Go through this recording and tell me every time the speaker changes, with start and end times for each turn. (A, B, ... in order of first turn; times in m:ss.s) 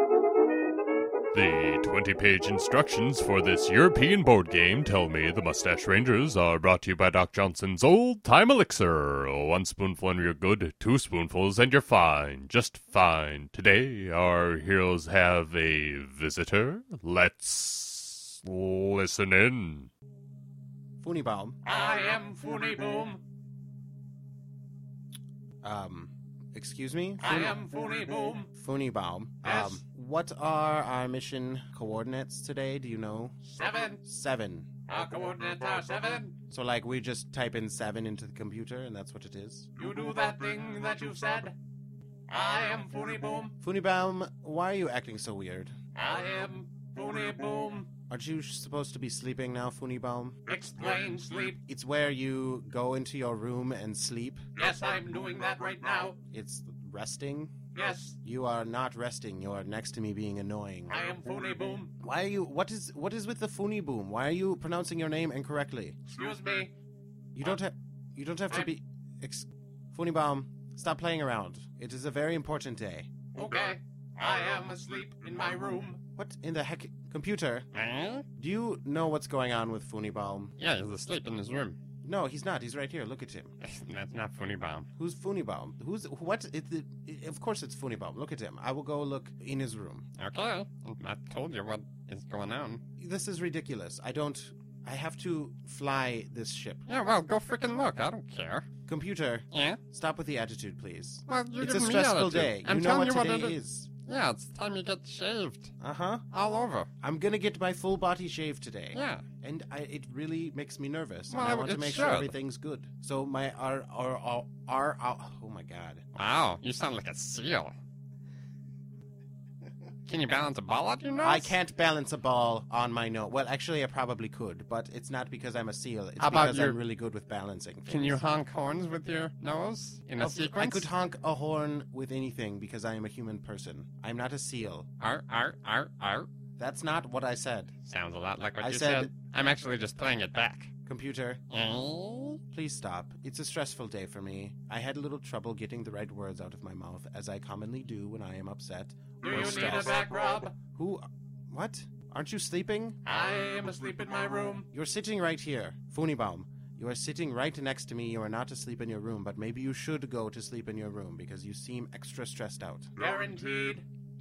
0:01.3-0:19.9 A
0:21.0-0:21.6 B
0:21.6-0:23.2 C
0:25.6-0:27.6 B
0:27.2-0:28.5 C
0:28.5-0:34.7 B
0:29.4-0:29.8 C
0:33.5-0:34.0 C
0:34.9-0:36.3 C
0:36.5-0:39.7 B
0:39.8-0:41.6 C
0:42.3-0:43.5 C
0:43.6-0:45.7 B
0:46.0-0:47.9 C
0:48.1-0:50.5 B
0:50.5-0:51.6 C
0:51.6-0:54.4 B
0:54.6-0:56.2 C
0:56.3-0:57.6 B
0:57.7-0:58.1 C
0:58.1-1:01.0 B
1:00.9-1:01.9 C
1:02.0-1:06.0 B
1:06.1-1:06.7 C
1:07.3-1:13.1 B
1:13.3-1:16.0 C
1:16.2-1:17.7 B
1:17.7-1:18.2 D
1:18.4-1:20.5 B
1:20.6-1:21.8 D
1:22.0-1:23.5 B
1:23.6-1:24.9 D
1:25.0-1:30.1 B
1:30.2-1:32.8 D
1:33.0-1:36.8 B
1:36.9-1:38.6 D
1:38.8-1:43.9 B
1:39.5-1:39.8 D
1:41.3-1:45.7 D
1:45.8-1:46.2 B
1:46.3-1:46.9 D
1:47.0-1:56.0 B
1:48.9-1:49.2 D
1:51.3-1:52.3 D
1:56.1-1:57.7 D
2:00.0-2:01.5 D
2:01.2-2:08.2 B
2:06.2-2:06.8 D
2:07.9-2:10.9 D
2:10.2-2:14.9 B
2:15.0-2:16.3 D
2:16.6-2:17.8 B
2:17.9-2:20.7 D
2:18.6-2:19.1 B
2:20.8-2:21.4 B
2:21.5-2:22.4 D
2:22.5-2:33.0 B
2:29.2-2:30.5 C
2:33.0-2:34.7 C
2:34.7-2:42.9 B
2:43.0-2:43.8 C